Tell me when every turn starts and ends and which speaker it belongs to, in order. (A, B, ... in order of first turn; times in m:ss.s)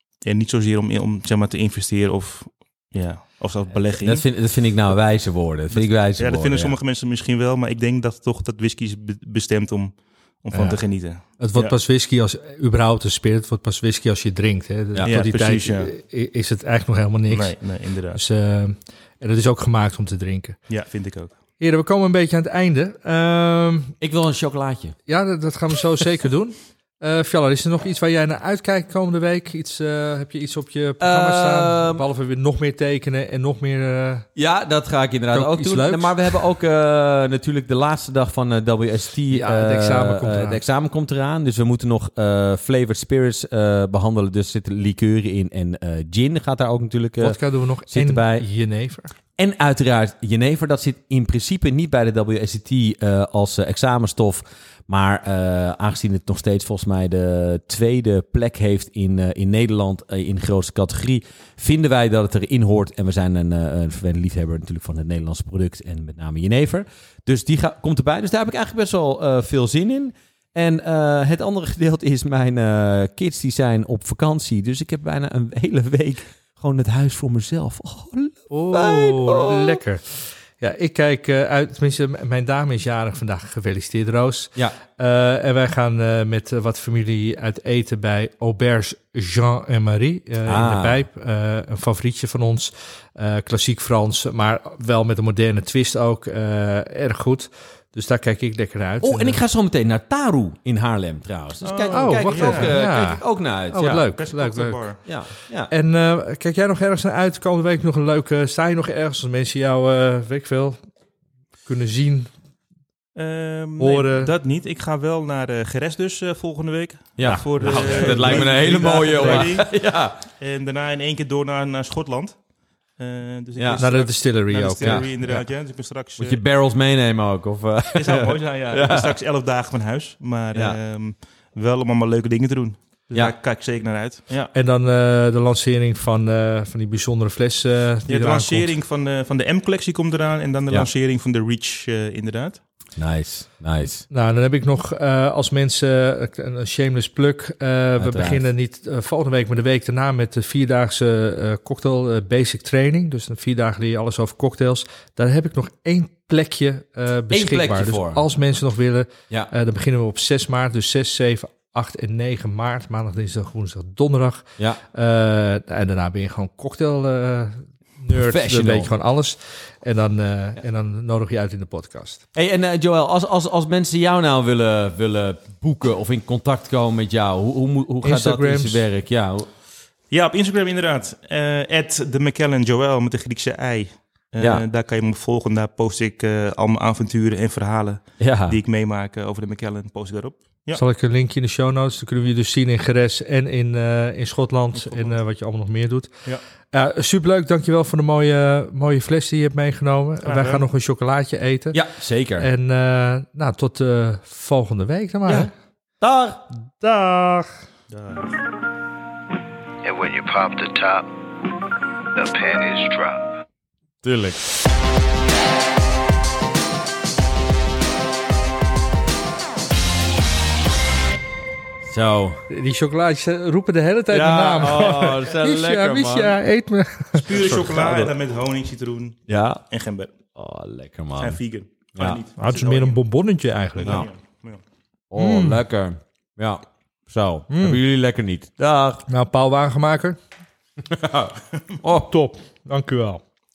0:00.2-0:04.2 A
0:04.0-0:06.8 B
0:05.7-0:11.8 A
0:10.5-0:20.6 C
0:15.1-0:15.9 A
0:17.3-0:18.2 A
0:20.7-0:21.4 A
0:21.6-0:23.9 C
0:24.0-0:25.0 B
0:25.1-0:34.3 C
0:31.0-0:32.0 B
0:34.4-0:48.5 B
0:35.3-0:36.4 C
0:39.3-0:40.6 C
0:47.2-0:49.2 C
0:49.4-1:19.8 B
1:18.5-1:39.4 C
1:30.4-1:31.0 B
1:39.0-1:44.1 B
1:41.6-1:42.8 A
1:41.9-1:45.2 C
1:44.0-1:45.0 A
1:45.1-1:45.7 B
1:45.7-1:50.9 C
1:51.6-1:52.3 C
1:53.2-2:06.4 A
1:53.8-1:54.3 C
1:57.2-2:00.2 B
1:57.3-1:59.5 C
2:03.6-2:03.9 B
2:03.8-2:05.4 C
2:04.8-2:05.4 B
2:06.2-2:09.2 B
2:07.9-2:14.5 A
2:14.5-2:18.7 C
2:18.1-2:22.6 A
2:23.0-2:24.0 B
2:24.1-2:52.2 C
2:28.0-2:28.5 B
2:37.3-2:38.2 B
2:48.1-2:48.9 B
2:52.4-2:59.5 B
2:58.0-2:58.9 C
3:00.1-3:10.8 A
3:04.4-3:04.6 B
3:08.2-3:08.6 B
3:10.7-3:16.1 C
3:14.9-3:15.1 A
3:16.7-3:21.8 C
3:20.2-3:20.6 A
3:21.7-3:22.5 B
3:22.4-3:25.5 C
3:25.3-3:26.4 B
3:26.7-3:27.6 C
3:27.9-3:28.3 A
3:29.8-3:31.1 D
3:32.2-3:33.3 D
3:34.0-3:34.4 B
3:41.8-3:42.4 B
3:42.5-3:47.2 C
3:44.1-3:46.4 B
3:47.1-3:50.1 A
3:47.3-3:48.1 B
3:49.3-3:49.6 B
3:50.4-3:51.4 B
3:51.2-3:53.0 A
3:52.4-3:54.1 C
3:53.8-3:54.6 A
3:55.1-3:59.0 B
3:55.2-3:55.6 C
3:57.5-3:57.8 C
3:59.1-4:00.2 C
4:00.9-4:02.1 B
4:01.8-4:03.2 C